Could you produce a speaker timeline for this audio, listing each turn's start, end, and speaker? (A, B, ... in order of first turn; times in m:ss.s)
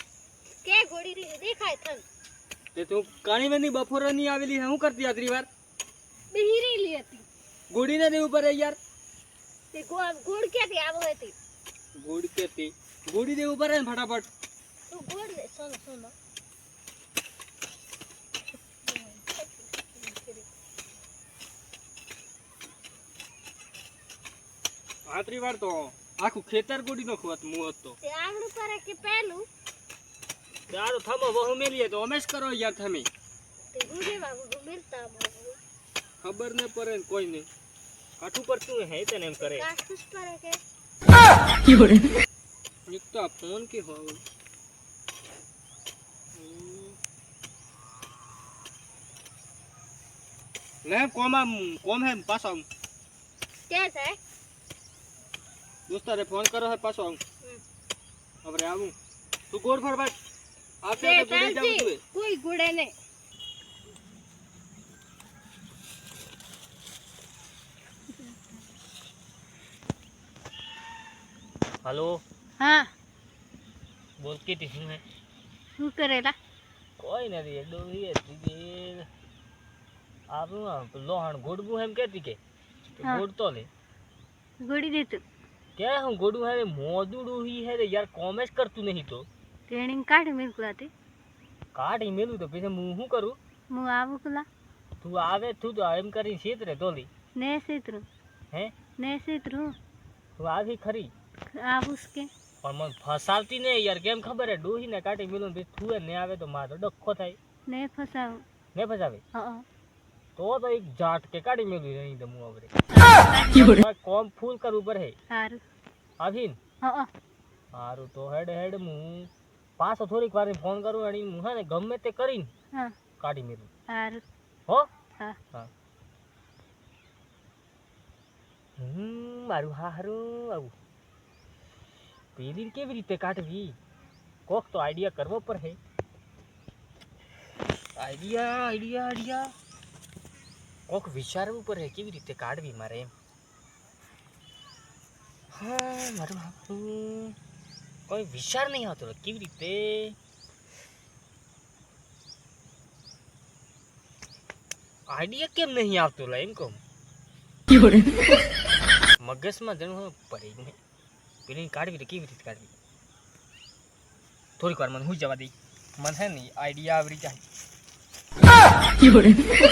0:00.6-0:02.0 A
0:02.7-0:05.5 B
0:06.3-0:07.2 A
0:07.7-0:08.8 B
0:09.7-0:11.3 A
0:12.0-0:14.3 B
0:14.9-0:16.1 A
0:18.8-0:20.5 A
0:25.0-0:28.0 B
0:28.0-0:29.5 A
0:30.7-0:33.1 B
0:33.7-0:35.6 A
0:36.2-0:37.5 B
0:38.2-0:39.6 B
0:39.4-0:40.6 A
0:42.9-0:44.2 B
0:46.4-0:47.0 B
0:50.8-0:52.6 B
0:53.7-0:54.2 A
0:55.9-0:57.2 B
0:58.4-0:58.9 B
0:59.5-1:00.1 B
1:00.8-1:02.0 B
1:01.0-1:02.9 A
1:11.8-1:12.2 B
1:12.6-1:12.9 A
1:14.2-1:15.0 B
1:15.8-1:16.4 A
1:17.0-1:19.1 B
1:20.3-1:22.4 B
1:23.0-1:23.7 B
1:24.6-1:25.2 A
1:25.8-1:29.3 B
1:29.7-1:30.9 A
1:31.7-1:33.4 B
1:33.7-1:34.5 A
1:35.0-1:37.1 B
1:37.4-1:38.1 A
1:39.0-1:39.8 A
1:40.4-1:41.1 B
1:41.6-1:42.3 A
1:42.6-1:47.4 B
1:47.7-1:48.4 A
1:48.7-1:49.2 B
1:49.3-1:49.6 A
1:50.4-1:52.7 B
1:52.9-1:53.8 A
1:53.5-1:55.2 B
1:55.3-1:55.6 A
1:56.2-1:56.6 B
1:56.8-1:57.1 A
1:57.7-2:02.5 B
2:03.2-2:03.7 B
2:03.9-2:04.2 A
2:08.8-2:10.7 B
2:12.4-2:13.8 B
2:14.5-2:15.8 B
2:18.0-2:19.5 B
2:20.9-2:23.1 B
2:25.5-2:27.4 B
2:28.1-2:30.2 B
2:35.1-2:36.8 B
2:39.2-2:40.8 B
2:41.4-2:42.7 B
2:44.6-2:47.4 B